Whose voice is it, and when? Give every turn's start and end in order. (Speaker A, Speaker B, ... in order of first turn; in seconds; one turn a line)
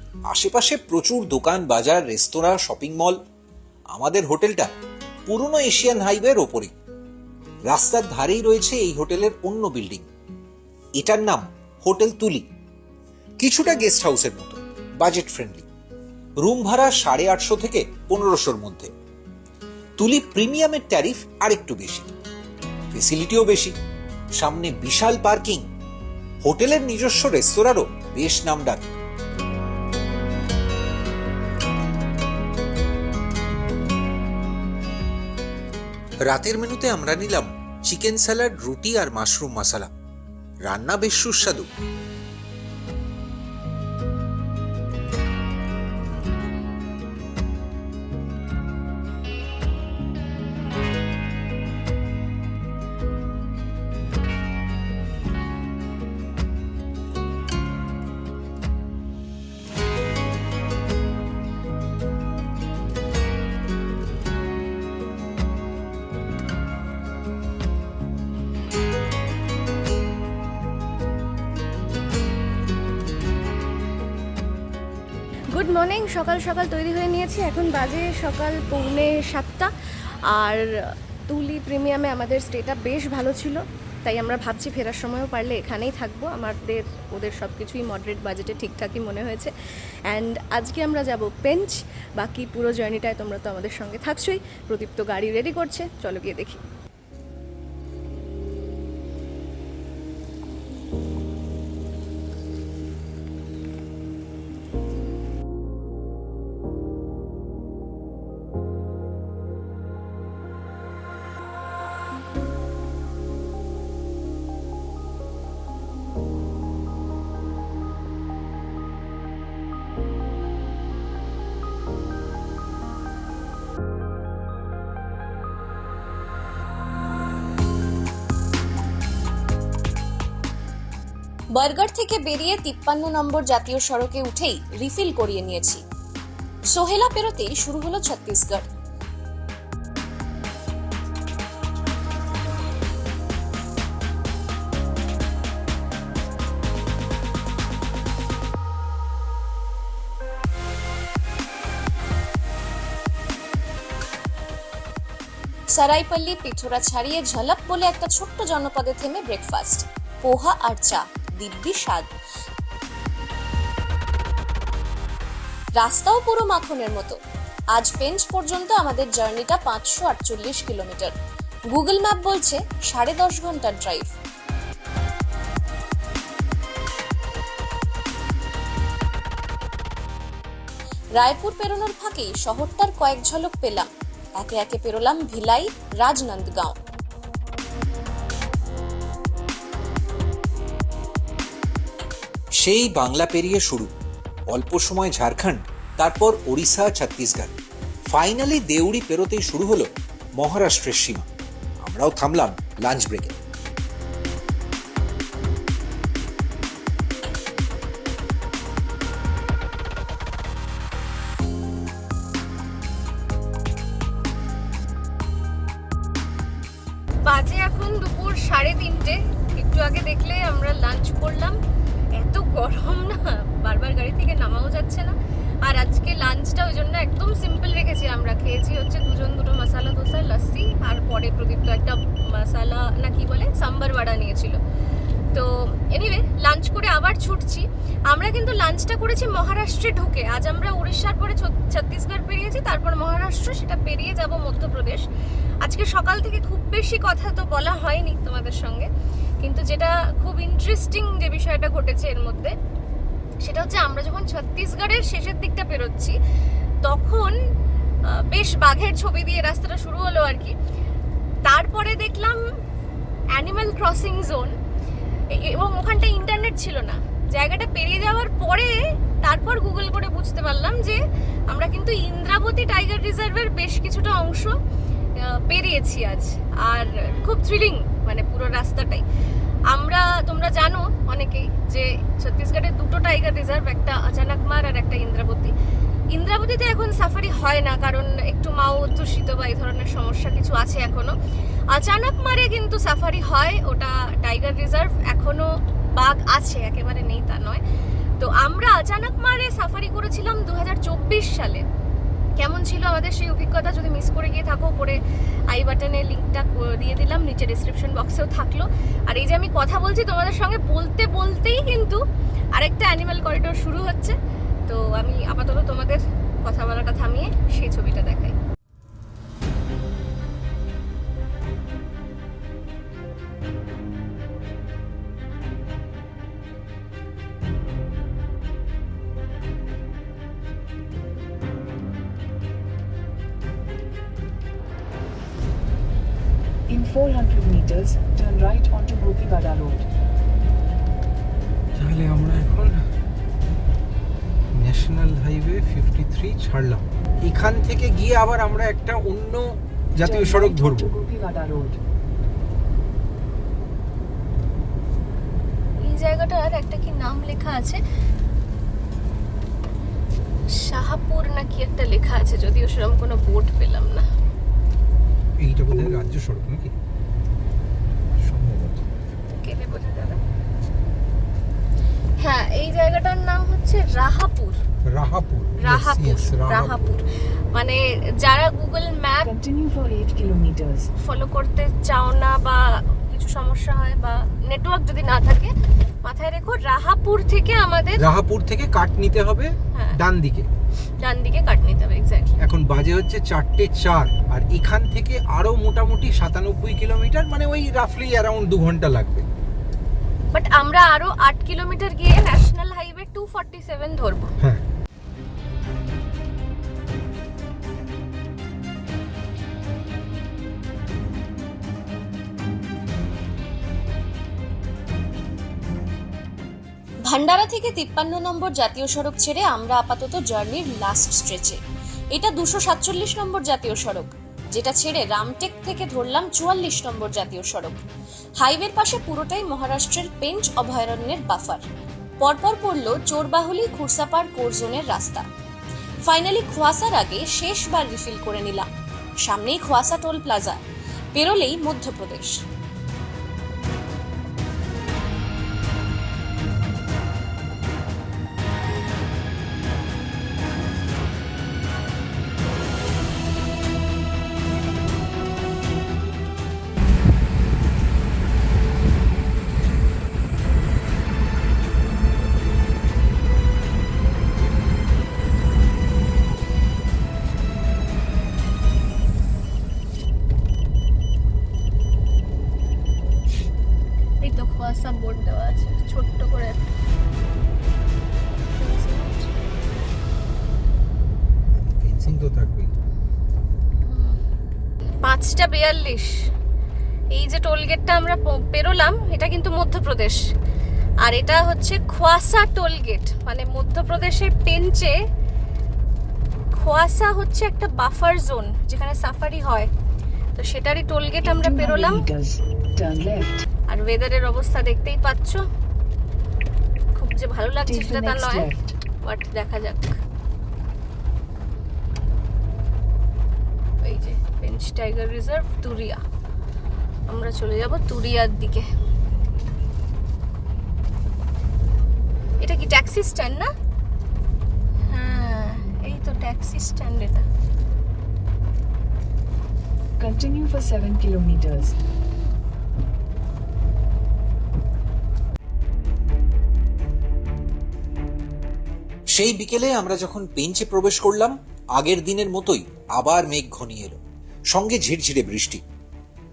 Speaker A: 0.3-3.2
Speaker A: 3.9-4.7
Speaker A: 5.3-6.7
Speaker A: 7.7-10.1
Speaker A: 11.0-12.4
Speaker A: 13.4-15.7
Speaker A: 16.4-18.9
Speaker A: 20.0-22.1
Speaker A: 22.9-23.8
Speaker A: 24.4-25.6
Speaker A: 26.4-28.9
Speaker A: 36.3-39.9
Speaker A: 40.6-41.7
Speaker B: 75.5-79.7
Speaker B: 80.3-80.7
Speaker B: 81.3-89.5
Speaker B: 90.1-96.6
Speaker C: 131.6-135.8
Speaker C: 136.7-138.7
Speaker C: 155.7-162.1
Speaker C: 165.8-167.2
Speaker C: 167.7-171.1
Speaker C: 171.7-174.2
Speaker C: 181.2-186.8
Speaker A: 192.6-193.9
Speaker A: 194.5-197.5
Speaker A: 198.1-201.3
Speaker A: 201.8-203.4
Speaker B: 217.2-221.6
Speaker B: 222.1-234.6
Speaker B: 235.3-245.0
Speaker B: 245.6-248.9
Speaker B: 249.4-252.6
Speaker B: 253.4-256.1
Speaker B: 256.8-257.4
Speaker B: 258.1-260.6
Speaker B: 261.5-262.4
Speaker B: 263.3-264.5
Speaker B: 265.3-274.6
Speaker B: 275.2-279.0
Speaker B: 279.7-285.5
Speaker B: 286.1-291.1
Speaker B: 291.7-297.6
Speaker B: 298.2-301.6
Speaker B: 302.4-305.0
Speaker B: 305.5-312.0
Speaker B: 312.6-314.2
Speaker B: 314.7-318.4
Speaker D: 336.7-339.9
Speaker E: 341.8-342.8
Speaker E: 344.6-350.9
Speaker D: 350.0-351.8
Speaker B: 355.8-357.8
Speaker B: 360.5-364.1
Speaker E: 365.4-366.7
Speaker E: 368.2-368.9
Speaker B: 369.3-370.2
Speaker B: 372.2-374.6
Speaker E: 374.9-376.8
Speaker B: 375.6-379.3
Speaker D: 379.2-380.9
Speaker B: 381.0-385.5
Speaker B: 386.0-388.0
Speaker E: 388.0-390.5
Speaker B: 389.7-390.0
Speaker B: 391.0-392.4
Speaker E: 392.4-399.3
Speaker B: 400.3-404.4
Speaker C: 417.1-421.6
Speaker C: 422.1-427.8
Speaker C: 428.4-431.6
Speaker C: 432.2-435.2
Speaker C: 436.1-438.7
Speaker C: 439.2-440.6
Speaker C: 441.1-442.4
Speaker B: 474.2-476.6
Speaker B: 478.6-479.4
Speaker E: 481.6-482.7
Speaker B: 483.8-484.2
Speaker B: 485.0-486.1
Speaker B: 487.1-490.2
Speaker B: 491.0-494.9
Speaker B: 496.5-499.7
Speaker B: 500.4-502.0
Speaker D: 501.2-503.4
Speaker B: 503.7-505.4
Speaker B: 507.0-508.5
Speaker D: 507.7-508.8
Speaker B: 509.0-510.0
Speaker B: 513.8-516.0
Speaker B: 517.1-518.6
Speaker B: 522.4-523.5
Speaker B: 524.9-527.2
Speaker D: 530.0-531.8
Speaker A: 539.1-544.0
Speaker A: 544.5-545.6